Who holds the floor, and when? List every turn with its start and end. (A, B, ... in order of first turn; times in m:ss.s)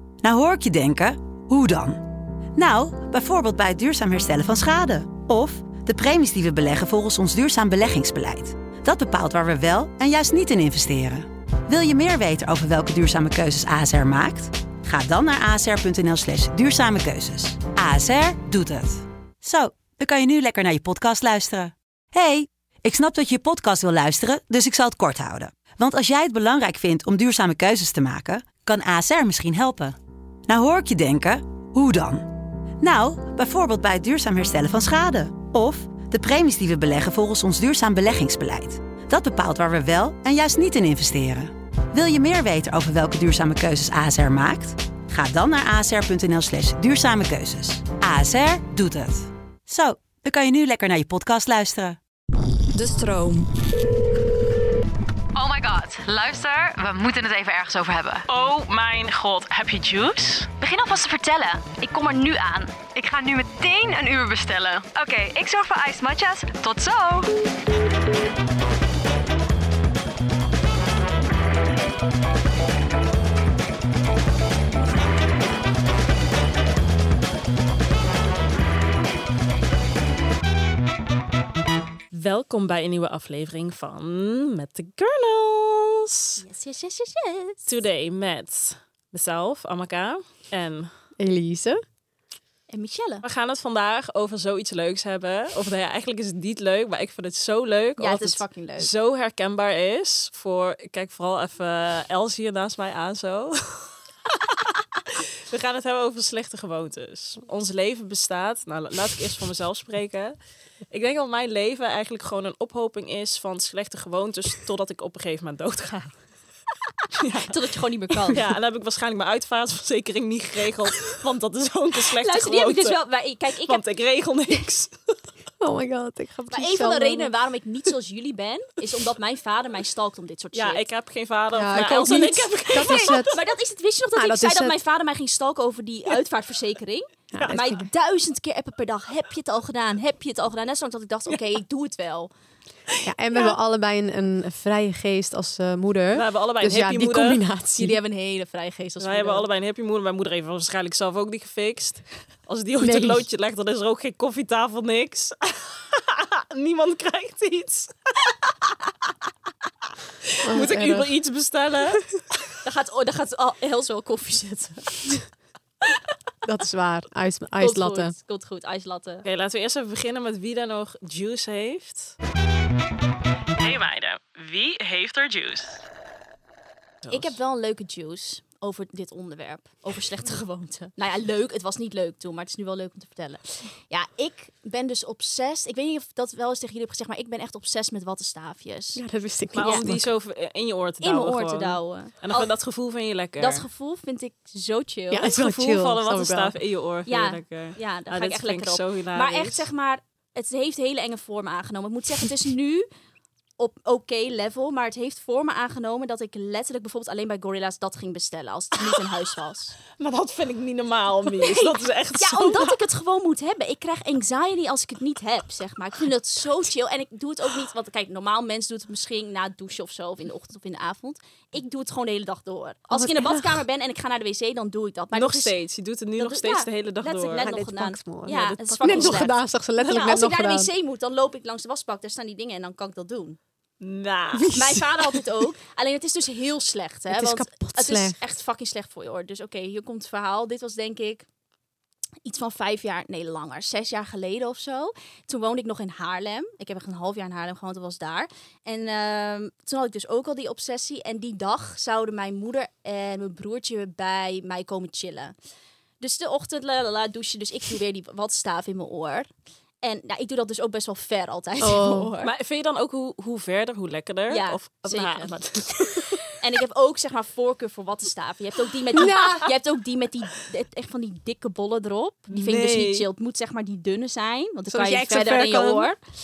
0:00.2-0:30.0 A
0:30.5-0:52.0 A
0:52.7-0:53.6 B
0:55.3-0:58.2 B
0:58.3-1:00.5 C
1:00.6-1:02.8 D
1:02.9-1:07.3 B
1:22.1-1:26.4 C
1:26.4-1:27.7 D
1:27.6-1:30.9 C
1:31.2-1:31.8 E
1:32.7-1:33.2 D
1:33.2-1:44.0 C
1:38.0-1:38.9 D
1:44.5-1:50.3 C
1:50.9-1:56.2 C
1:57.2-1:57.5 C
1:57.2-1:58.4 D
1:58.3-2:03.0 C
2:02.2-2:03.8 D
2:03.6-2:05.1 C
2:05.6-2:07.3 E
2:06.5-2:10.8 D
2:10.5-2:13.4 C
2:11.5-2:13.4 E
2:11.7-2:22.3 D
2:14.1-2:14.7 E
2:17.3-2:17.9 E
2:17.3-2:17.8 C
2:23.0-2:28.0 E
2:26.1-2:27.4 C
2:27.8-2:29.4 D
2:29.0-2:38.3 C
2:32.8-2:33.2 E
2:40.2-2:42.2 C
2:40.4-2:41.1 E
2:42.6-2:45.1 D
2:46.4-2:48.1 E
2:47.6-2:49.2 D
2:49.2-2:52.2 C
2:53.6-2:55.8 C
2:57.0-2:57.3 C
2:57.1-3:09.0 D
3:08.9-3:10.1 E
3:09.5-3:13.7 C
3:09.6-3:09.9 D
3:11.0-3:12.5 D
3:13.4-3:15.3 D
3:15.1-3:16.6 E
3:15.2-3:19.6 C
3:17.0-3:22.8 D
3:23.6-3:29.8 D
3:30.0-3:32.8 C
3:31.4-3:45.5 D
3:42.9-3:43.6 E
3:45.1-3:47.5 C
3:46.2-3:53.4 D
3:47.4-3:50.7 E
3:48.2-3:49.3 C
3:53.8-3:54.6 C
3:54.4-3:55.0 E
3:54.5-4:01.3 D
3:57.1-3:58.2 E
4:02.2-4:15.3 D
4:16.0-4:19.3 D
4:19.8-4:22.3 D
4:21.6-4:22.1 E
4:22.2-4:26.1 C
4:24.3-4:25.3 D
4:25.8-4:26.1 E
4:26.4-4:36.0 D
4:28.9-4:29.5 E
4:32.3-4:33.1 C
4:34.7-4:35.9 E